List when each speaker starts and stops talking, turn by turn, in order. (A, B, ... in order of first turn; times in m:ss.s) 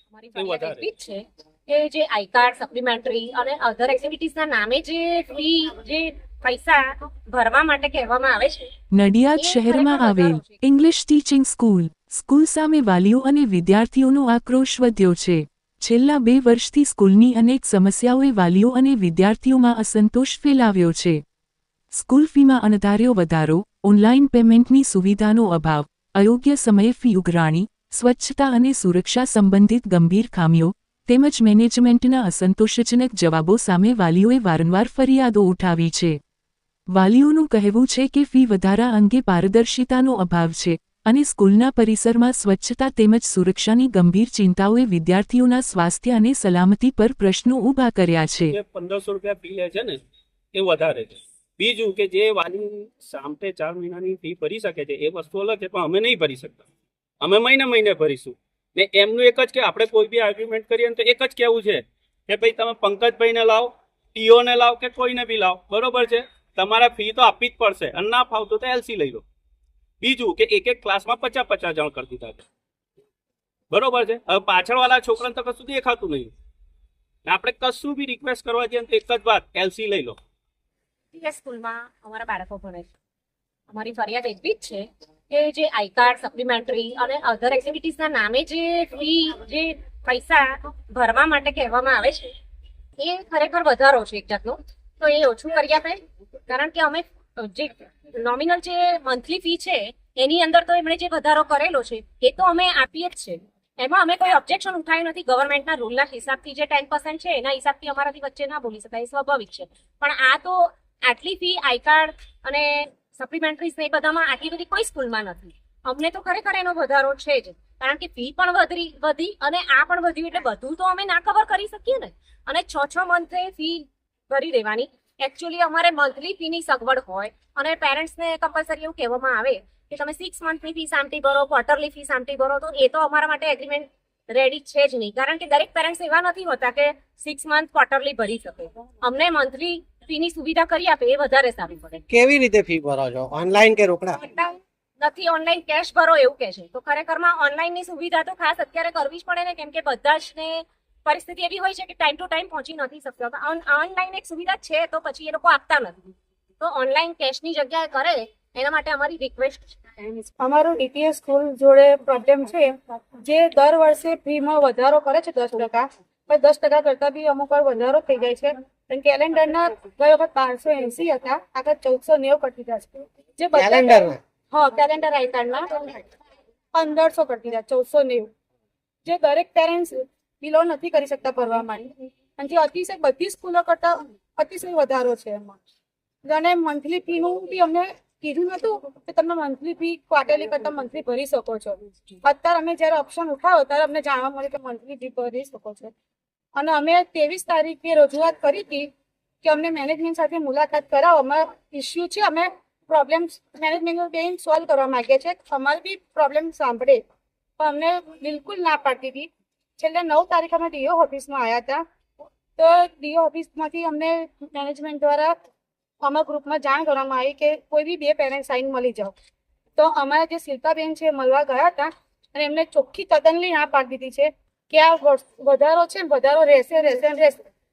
0:00.1-0:08.7 A
0:00.4-0:00.8 B
0:08.9-0:21.2 C
0:09.4-0:10.6 A
0:21.9-0:36.2 C
0:36.9-0:48.6 C
0:48.5-0:50.0 B
0:50.5-0:56.6 B
0:57.2-1:09.2 B
1:10.0-1:12.4 B
1:13.7-1:16.3 B
1:17.2-1:20.2 B
1:21.2-1:22.9 A
1:23.7-1:32.3 A
1:33.0-2:22.0 A
2:22.1-2:24.2 D
2:24.2-2:40.1 A
2:40.3-2:56.0 E
2:53.6-2:54.2 D
2:56.7-2:58.3 E
2:59.0-3:05.6 E
3:06.2-3:15.9 E
3:16.6-3:18.9 E
3:19.4-3:27.0 E
3:27.6-3:31.8 E
3:32.6-3:35.4 E
3:36.0-3:39.1 E
3:39.8-3:47.4 E